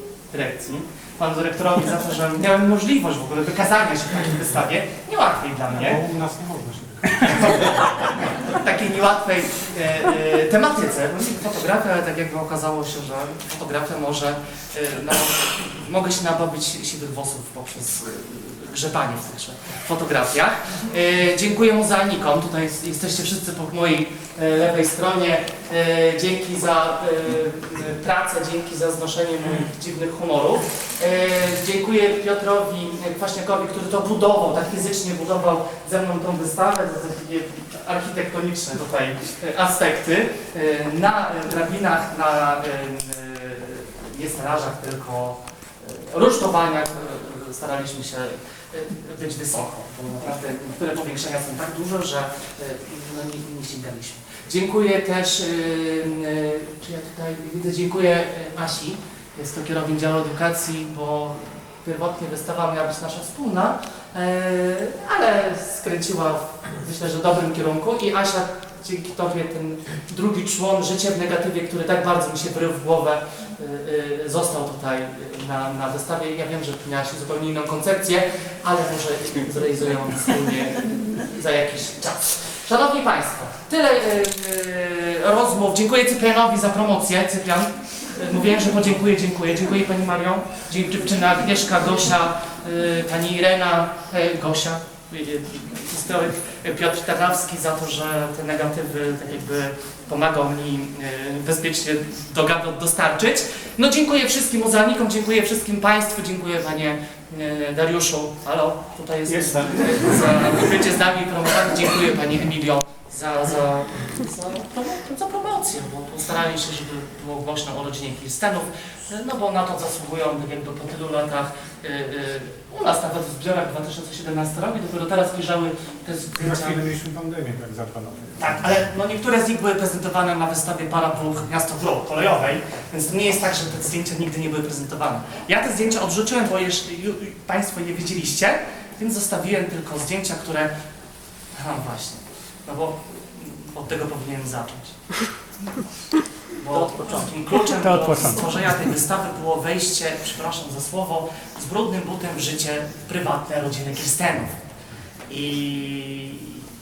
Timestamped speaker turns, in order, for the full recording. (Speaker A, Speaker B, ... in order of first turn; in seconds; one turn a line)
Speaker A: 0.3-6.0
Speaker B: 5.7-7.8
Speaker A: 7.2-126.8
Speaker B: 126.4-128.4
Speaker A: 128.4-140.7
Speaker A: 141.6-145.0
Speaker A: 146.6-154.5
Speaker B: 147.7-148.7
Speaker A: 155.3-156.7